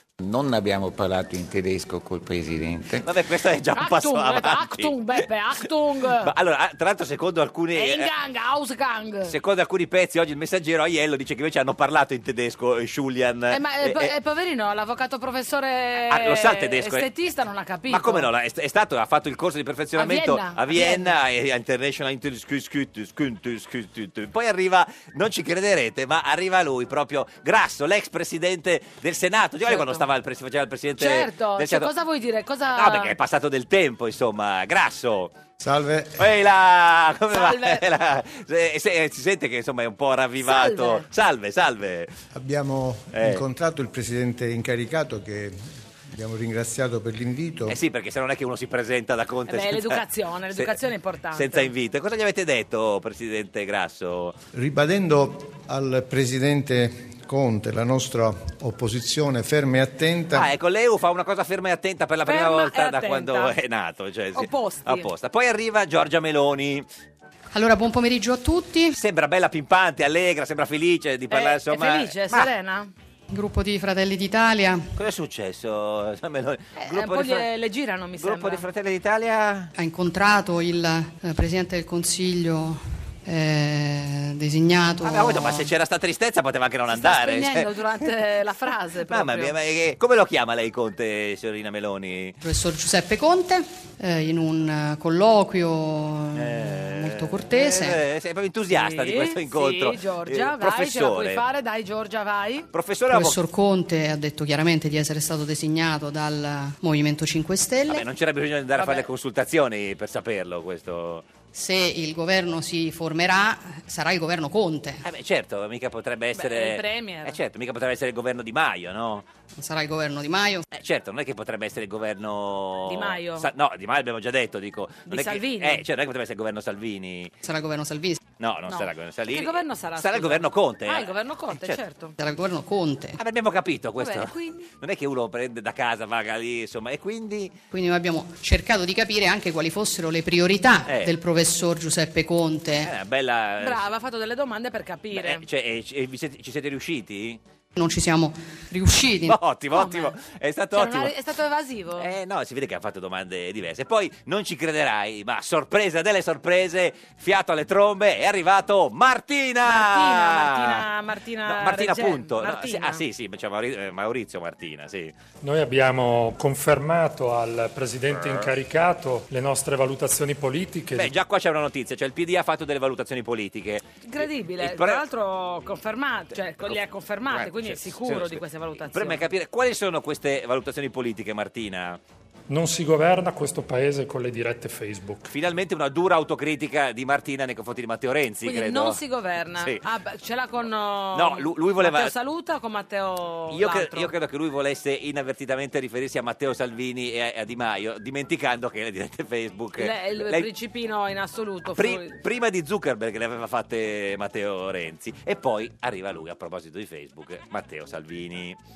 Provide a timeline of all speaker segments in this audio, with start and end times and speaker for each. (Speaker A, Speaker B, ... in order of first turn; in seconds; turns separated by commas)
Speaker A: 0.2-3.1, Speaker B: 3.0-5.3, Speaker C: 3.8-6.3, Speaker B: 6.0-8.1, Speaker C: 7.8-9.3, Speaker B: 9.3-14.1, Speaker C: 13.5-18.3, Speaker B: 16.1-17.1, Speaker B: 17.9-31.9, Speaker C: 20.0-21.1, Speaker C: 29.6-30.1, Speaker C: 31.0-33.1, Speaker B: 32.7-35.3, Speaker D: 35.6-36.3, Speaker B: 36.2-42.1, Speaker C: 37.3-37.8, Speaker C: 40.4-41.1, Speaker D: 42.3-47.8, Speaker B: 43.1-43.4, Speaker B: 47.7-50.8, Speaker C: 49.5-51.7, Speaker B: 51.3-54.4, Speaker D: 54.5-60.5, Speaker B: 60.3-66.9, Speaker C: 62.3-63.5, Speaker C: 64.3-65.1, Speaker E: 67.5-69.0, Speaker B: 68.9-72.5, Speaker C: 71.3-72.9, Speaker E: 73.3-74.9, Speaker B: 75.0-77.5, Speaker C: 76.8-78.6, Speaker B: 78.2-79.7, Speaker E: 79.8-85.7, Speaker B: 85.0-88.1, Speaker C: 86.9-89.5, Speaker B: 89.1-92.4, Speaker E: 92.4-98.0, Speaker B: 96.3-101.4, Speaker C: 98.7-102.7, Speaker B: 102.7-103.4, Speaker E: 103.1-108.0, Speaker B: 107.9-111.3, Speaker C: 108.8-109.1, Speaker E: 111.5-115.0, Speaker B: 115.0-119.3, Speaker C: 116.4-117.4, Speaker E: 119.6-120.6, Speaker B: 120.7-127.3, Speaker C: 122.9-123.5, Speaker C: 125.1-125.8, Speaker E: 127.4-128.2, Speaker B: 128.4-131.8, Speaker C: 128.7-132.2, Speaker E: 132.2-133.2, Speaker B: 133.2-137.6, Speaker C: 134.0-134.7, Speaker E: 137.7-142.9, Speaker B: 140.9-141.2, Speaker B: 142.8-143.9, Speaker C: 143.6-145.4, Speaker B: 145.1-147.4, Speaker E: 147.8-149.4, Speaker B: 149.3-151.1, Speaker C: 149.7-150.1, Speaker C: 150.7-152.1, Speaker B: 152.0-160.9, Speaker C: 159.7-163.0, Speaker B: 161.4-165.1, Speaker F: 165.4-171.1, Speaker B: 170.9-175.0, Speaker C: 174.1-179.2, Speaker B: 176.6-182.0, Speaker F: 182.5-185.3, Speaker B: 185.3-189.0, Speaker C: 188.4-194.1, Speaker B: 191.1-192.1, Speaker B: 193.5-200.5, Speaker C: 199.8-202.2, Speaker B: 201.7-208.6